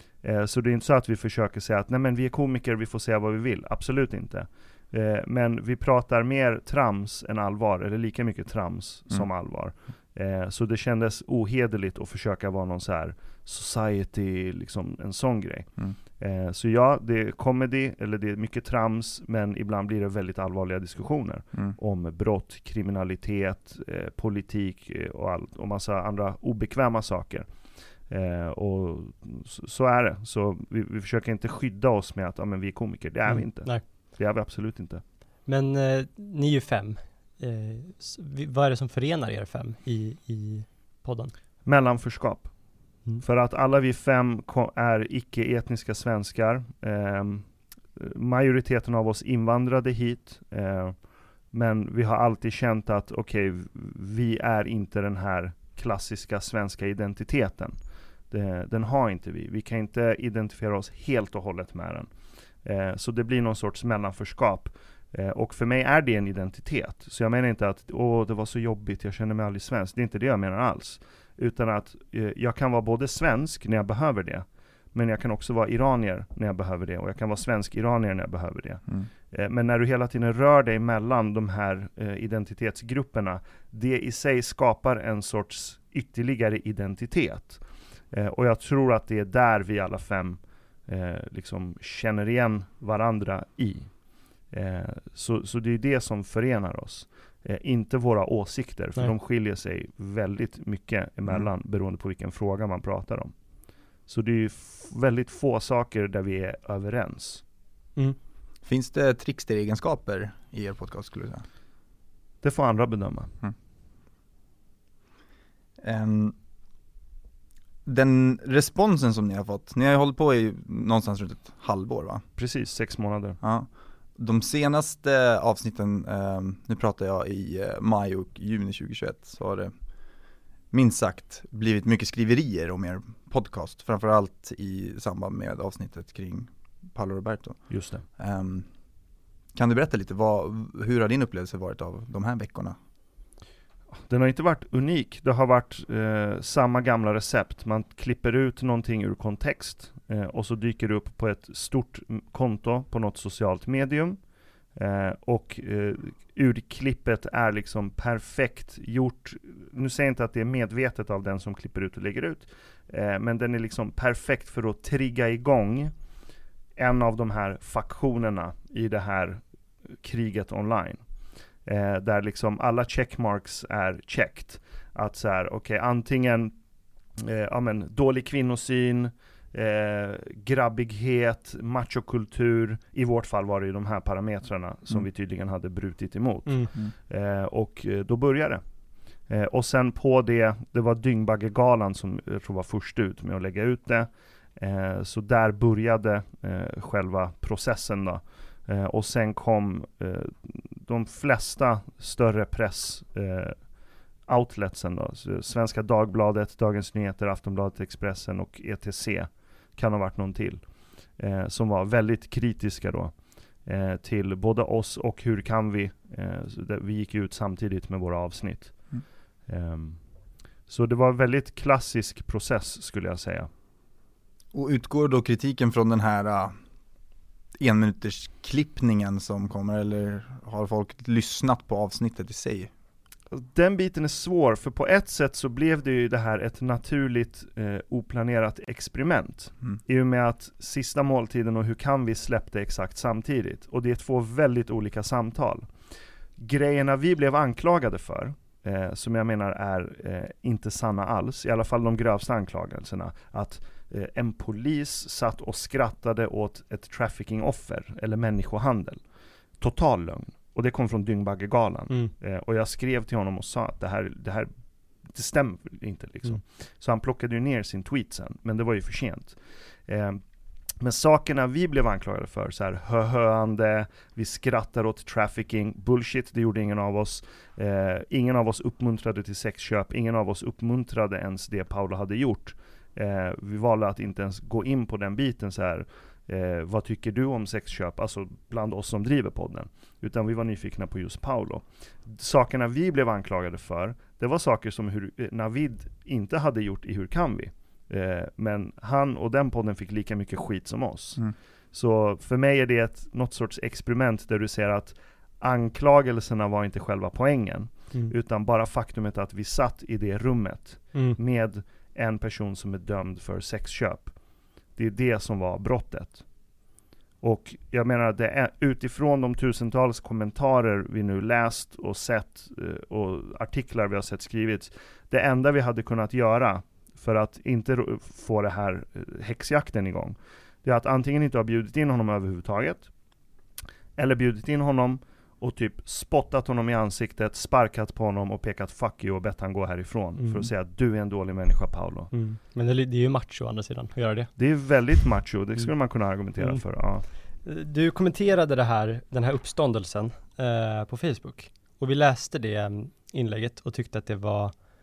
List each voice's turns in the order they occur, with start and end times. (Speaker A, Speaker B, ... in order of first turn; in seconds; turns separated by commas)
Speaker A: 0.2-27.5, Speaker A: 28.1-35.0, Speaker B: 33.3-33.8, Speaker B: 35.5-41.3, Speaker A: 41.6-42.5, Speaker A: 43.2-51.0, Speaker A: 51.5-57.8, Speaker A: 58.3-62.1, Speaker A: 62.6-93.9, Speaker A: 94.5-103.3, Speaker A: 104.1-107.4, Speaker C: 108.6-111.5, Speaker A: 112.4-113.3, Speaker C: 115.8-116.3, Speaker C: 117.9-122.2, Speaker A: 122.4-123.4, Speaker C: 123.4-129.7, Speaker C: 130.7-138.7, Speaker A: 137.7-138.1, Speaker C: 139.6-142.8, Speaker A: 144.1-154.2, Speaker A: 154.8-165.9, Speaker A: 166.8-169.4, Speaker A: 170.0-171.0, Speaker A: 171.7-176.6, Speaker A: 177.2-188.6, Speaker A: 189.3-203.6, Speaker A: 204.3-210.6, Speaker A: 211.2-218.8, Speaker A: 219.5-220.0, Speaker A: 220.7-223.5, Speaker C: 224.5-226.5, Speaker C: 227.6-232.7, Speaker A: 233.3-245.7, Speaker A: 246.4-259.0, Speaker A: 259.6-264.5, Speaker A: 265.1-270.2, Speaker A: 270.8-314.1, Speaker A: 314.8-316.2, Speaker A: 317.2-332.9, Speaker A: 334.0-342.1, Speaker B: 340.2-340.5, Speaker B: 342.1-344.4, Speaker A: 344.4-347.1, Speaker B: 347.4-354.6